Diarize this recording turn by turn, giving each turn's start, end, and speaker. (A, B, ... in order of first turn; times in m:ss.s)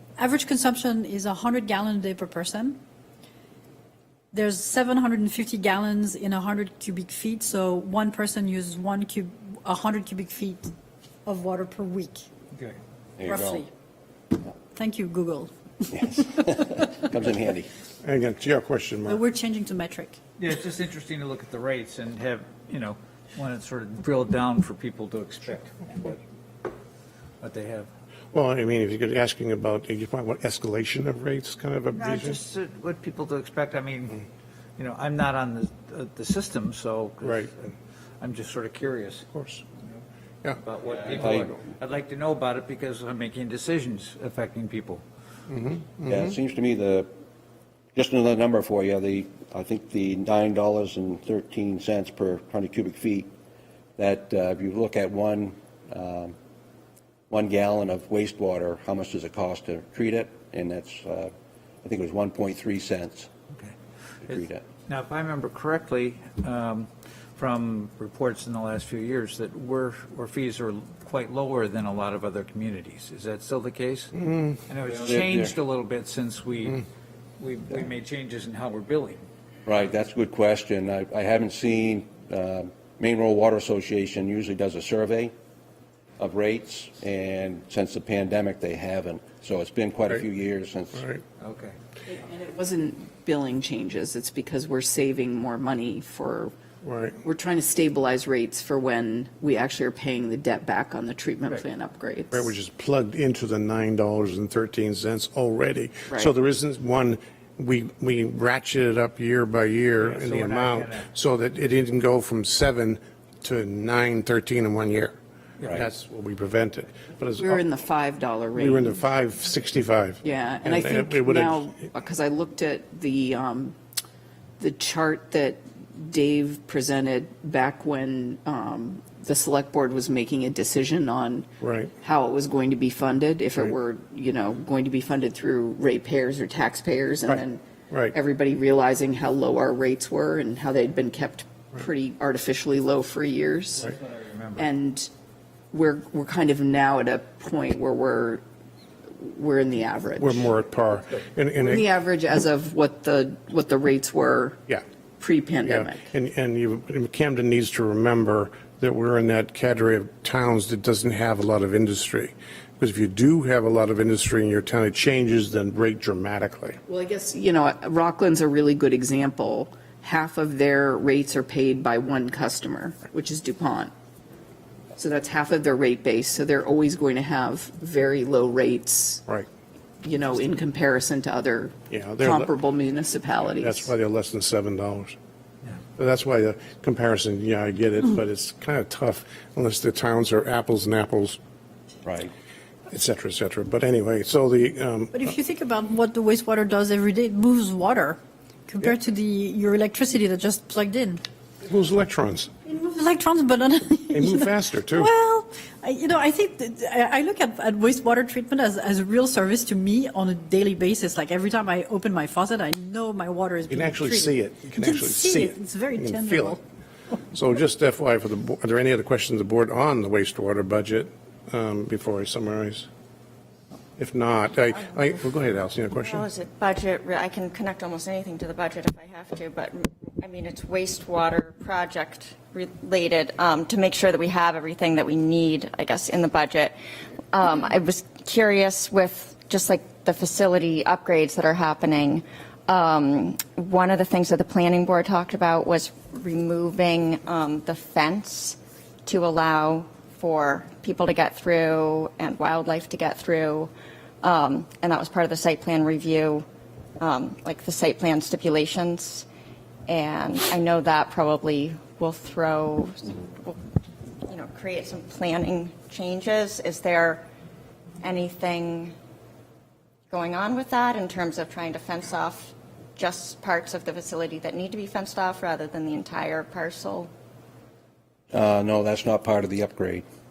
0:00.2-0:02.8 A
0:04.3-0:10.7 A
0:11.3-0:12.2 A
0:12.5-0:12.8 B
0:13.2-0:13.6 C
0:13.2-0:13.7 A
0:14.7-0:16.9 A
0:15.9-0:17.7 C
0:18.0-0:19.2 D
0:19.1-0:20.2 A
0:20.4-0:26.2 B
0:27.4-0:27.9 B
0:28.3-0:32.4 D
0:31.9-0:34.2 B
0:34.8-0:39.2 B
0:37.2-0:37.5 D
0:39.3-0:39.6 D
0:40.6-0:45.0 B
0:41.1-0:41.5 C
0:45.5-0:46.4 D
0:46.1-0:47.1 C
0:48.0-0:53.3 C
0:54.0-0:56.4 C
0:57.3-1:01.3 C
1:01.8-1:03.3 C
1:04.3-1:04.6 C
1:04.3-1:14.2 B
1:14.2-1:14.6 D
1:14.7-1:16.8 B
1:14.9-1:15.5 C
1:17.4-1:19.2 B
1:19.7-1:25.3 C
1:26.2-1:31.1 C
1:31.0-1:31.2 D
1:31.4-1:31.8 B
1:32.1-1:36.5 E
1:36.8-1:37.2 D
1:37.2-1:42.5 E
1:42.3-1:55.2 D
1:50.0-1:51.1 B
1:55.7-1:57.6 D
1:57.4-1:59.0 E
1:58.6-2:01.8 D
2:00.2-2:03.8 E
2:04.6-2:11.5 E
2:11.6-2:11.9 D
2:12.0-2:23.9 E
2:17.3-2:18.2 D
2:23.8-2:24.7 B
2:24.6-2:25.1 E
2:25.7-2:28.4 E
2:29.2-2:30.5 E
2:30.2-2:31.8 D
2:31.6-2:34.6 E
2:35.2-2:36.0 E
2:35.6-2:46.8 D
2:46.9-2:53.9 E
2:55.0-2:59.2 E
3:00.0-3:03.9 E
3:01.9-3:02.5 D
3:03.6-3:05.2 D
3:06.0-3:11.4 D
3:12.0-3:12.3 C
3:12.9-3:15.3 D
3:15.1-3:21.2 A
3:21.6-3:22.5 D
3:22.7-3:36.6 A
3:24.1-3:25.1 D
3:33.7-3:36.6 D
3:37.3-3:42.9 D
3:44.0-3:46.3 D
3:46.0-3:56.8 F
3:57.3-4:13.7 F
4:14.2-4:16.5 F
4:17.0-4:19.3 F
4:19.9-4:23.6 F
4:24.3-4:27.2 F
4:28.0-4:29.0 F
4:30.1-4:37.1 F
4:38.3-4:40.0 C